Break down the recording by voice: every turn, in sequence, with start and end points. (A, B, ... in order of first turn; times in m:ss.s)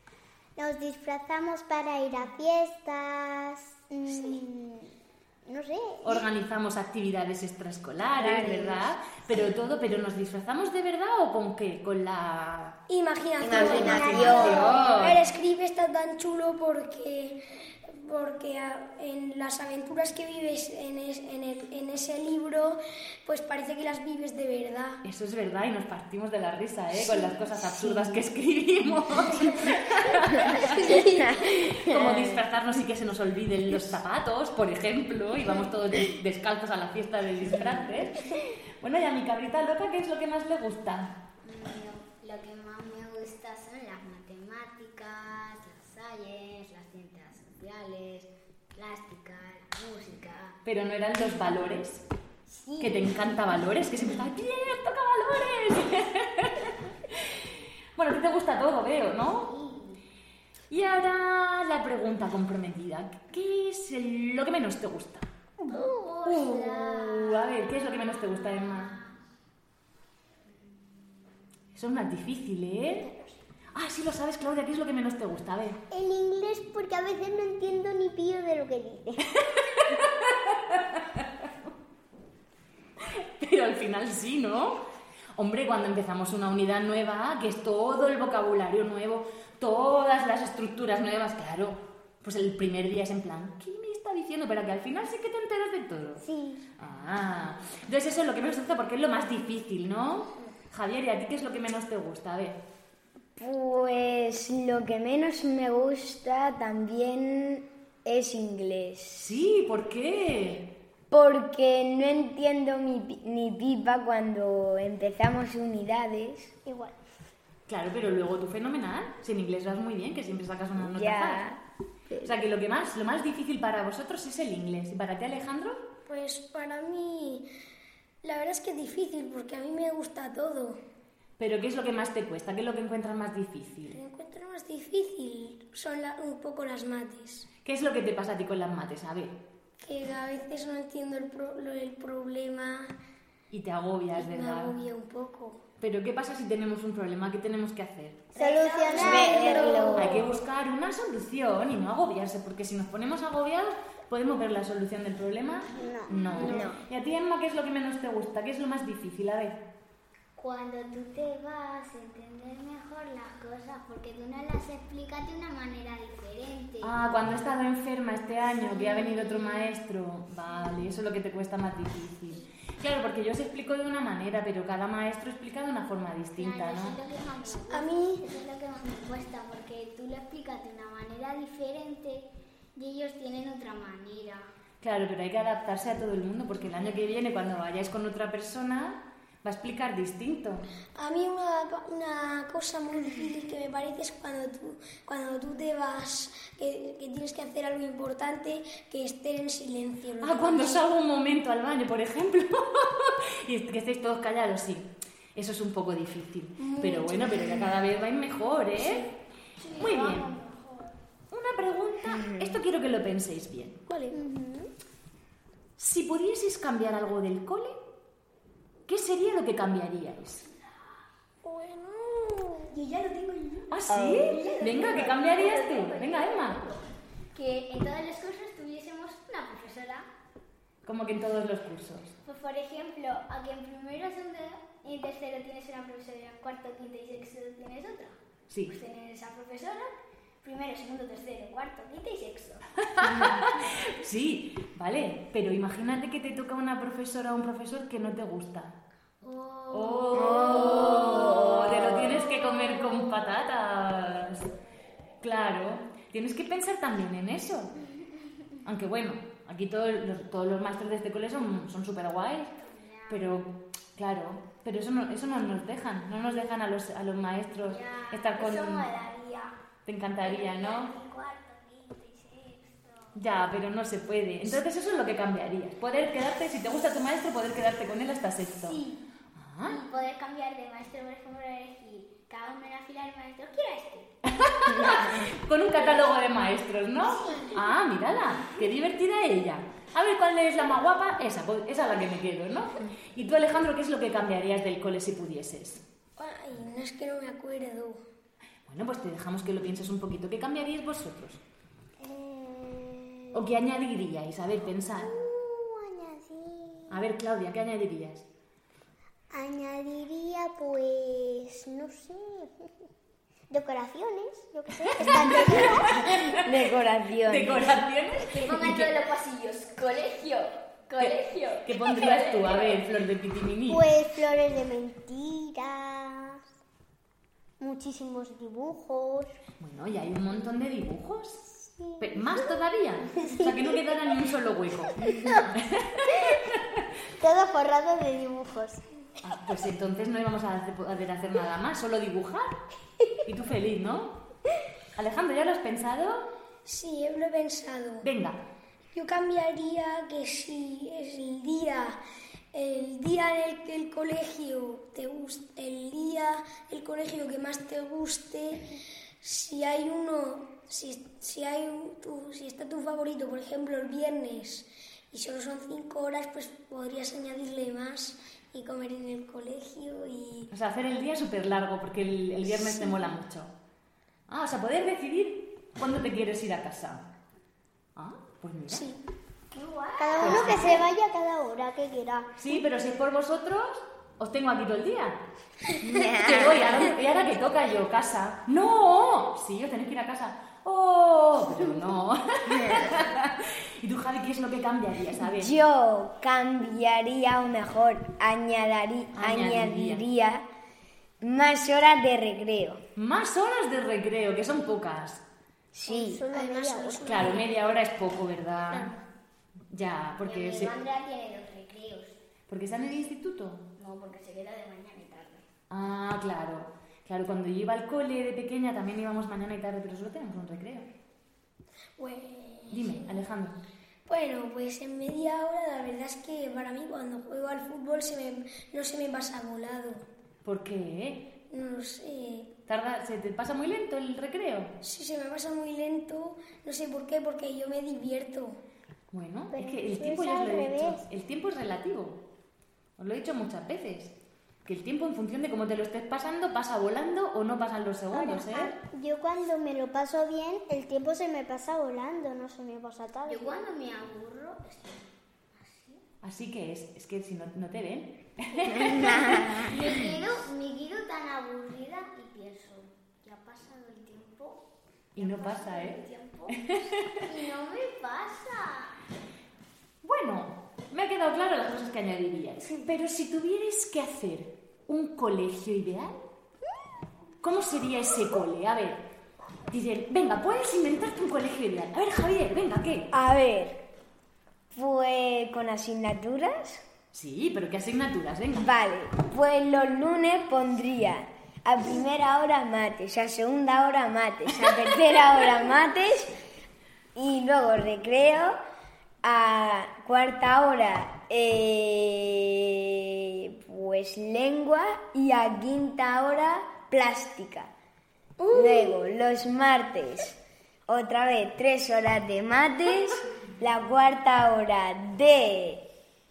0:00.6-0:04.9 A
0:04.1-0:04.4 B
0:05.4-0:06.2 A
0:06.0-0:12.8 C
0:08.2-0:08.9 D
0:12.9-0:25.0 B
0:13.4-0:14.9 D
0:13.5-0:15.0 A
0:13.5-0:15.2 C
0:25.0-0:41.2 C
0:27.8-0:28.1 D
0:30.5-0:31.4 B
0:31.1-0:32.4 D
0:41.4-0:50.6 E
0:50.6-0:52.0 C
0:52.5-0:53.3 E
0:52.8-0:57.4 C
0:58.0-0:59.5 C
0:59.3-1:00.0 E
1:00.7-1:05.2 C
1:05.7-1:09.1 E
1:06.2-1:09.0 C
1:11.7-1:13.1 C
1:13.7-1:15.8 C
1:15.9-1:19.4 A
1:19.7-1:21.2 C
1:23.0-1:24.8 C
1:25.4-1:36.2 C
1:36.2-1:36.6 A
1:36.8-1:42.6 C
1:43.4-1:49.3 D
1:49.2-1:50.8 C
1:51.1-1:56.5 D
1:56.6-1:56.9 B
1:57.7-2:01.5 C
2:00.8-2:02.3 D
2:02.2-2:05.9 C
2:06.1-2:07.5 B
2:08.2-2:10.8 B
2:11.4-2:14.0 C
2:13.9-2:17.5 B
2:17.6-2:19.4 C
2:19.8-2:22.9 B
2:23.5-2:24.7 C
2:24.2-2:25.6 B
2:25.8-2:28.3 C
2:28.3-2:30.0 E
2:28.4-2:30.2 A
2:28.9-2:30.3 D
2:29.9-2:39.6 C
2:35.8-2:36.6 A
2:36.0-2:36.7 E
2:36.4-2:36.8 D
2:40.4-2:46.9 E
2:46.8-2:57.0 C
2:48.6-2:49.8 E
2:56.4-3:04.5 E
2:57.7-2:58.2 B
3:04.8-3:10.7 C
3:11.0-3:20.8 B
3:20.2-3:29.1 C
3:26.6-3:27.7 B
3:28.8-3:29.0 B
3:29.6-3:30.9 E
3:29.8-3:30.3 C
3:31.3-3:33.8 C
3:32.1-3:32.6 D
3:33.9-3:34.2 B
3:34.1-3:34.7 A
3:35.8-3:37.8 C
3:38.9-3:40.4 C
3:41.4-3:43.8 B
3:43.7-3:46.6 C
3:43.9-3:44.4 D
3:44.2-3:46.8 E
3:47.3-3:50.1 E
3:50.8-3:52.1 C
3:52.2-3:59.9 E
3:58.5-3:58.8 C
4:00.4-4:03.8 E
4:02.8-4:08.8 C
4:09.2-4:13.0 E
4:09.7-4:14.5 C
4:10.4-4:11.6 D
4:15.2-4:17.7 C
4:18.6-4:22.5 C
4:22.6-4:23.4 E
4:23.1-4:28.9 C
4:27.6-4:29.5 E
4:29.8-4:30.9 C
4:30.2-4:33.2 E
4:33.1-4:38.8 C
4:38.5-4:39.0 E
4:39.4-4:39.8 C
4:39.6-4:44.1 E
4:44.3-4:55.8 C
4:47.2-4:47.5 E
4:56.2-4:58.0 B
4:58.7-5:01.4 C
5:02.0-5:03.4 A
5:03.3-5:05.1 C
5:05.0-5:07.0 A
5:06.9-5:08.2 C
5:09.3-5:12.7 A
5:13.5-5:16.1 A
5:15.0-5:16.6 C
5:16.3-5:17.8 D
5:17.2-5:18.9 C
5:18.3-5:22.8 E
5:21.0-5:23.9 C
5:23.7-5:26.4 A
5:27.6-5:29.4 A
5:29.6-5:36.5 C
5:31.9-5:32.5 A
5:33.1-5:33.9 A
5:35.0-5:35.5 A
5:36.0-5:36.4 A
5:37.1-5:38.8 A
5:39.2-5:42.6 C
5:43.2-5:44.2 C
5:45.0-5:46.3 C
5:46.6-5:48.1 B
5:48.0-5:48.4 C
5:48.9-5:52.0 B
5:52.5-6:10.5 B
6:10.5-6:13.5 C
6:14.3-6:17.1 C
6:18.0-6:18.9 C
6:18.7-6:19.0 B
6:19.5-6:20.8 E
6:20.0-6:22.3 A
6:20.2-6:20.8 C
6:22.4-6:25.2 C
6:25.8-6:26.8 D
6:25.8-6:35.5 C
6:32.6-6:32.8 D
6:35.2-6:40.4 D
6:39.2-6:40.0 C
6:41.2-6:42.8 D
6:43.0-6:45.2 C
6:45.7-6:46.2 D
6:45.9-6:47.5 A
6:46.3-6:47.5 B
6:47.0-6:48.9 C
6:48.7-6:49.0 B
6:49.7-6:50.7 C
6:50.2-6:52.2 E
6:52.5-6:53.6 C
6:53.8-6:55.4 E
6:55.7-7:00.9 C
7:02.0-7:03.1 B
7:02.7-7:03.6 C
7:04.1-7:10.0 B
7:10.4-7:11.3 C
7:11.5-7:12.5 B
7:12.7-7:14.7 C
7:14.8-7:18.6 B
7:19.1-7:22.2 C
7:19.5-7:21.0 A
7:23.0-7:28.7 C
7:28.1-7:33.6 A
7:33.2-7:36.0 E
7:36.2-7:39.9 C
7:38.7-7:44.6 E
7:39.2-7:39.5 D
7:45.1-7:47.2 C
7:45.2-7:46.7 E
7:47.2-7:48.9 E
7:50.0-7:56.2 C
7:57.4-7:59.0 C
7:59.7-8:03.1 C
8:03.1-8:03.8 D
8:04.7-8:06.8 D
8:07.1-8:08.7 C
8:08.5-8:16.4 D
8:17.1-8:18.6 D
8:19.2-8:27.7 D
8:28.4-8:29.0 B
8:28.5-8:35.8 D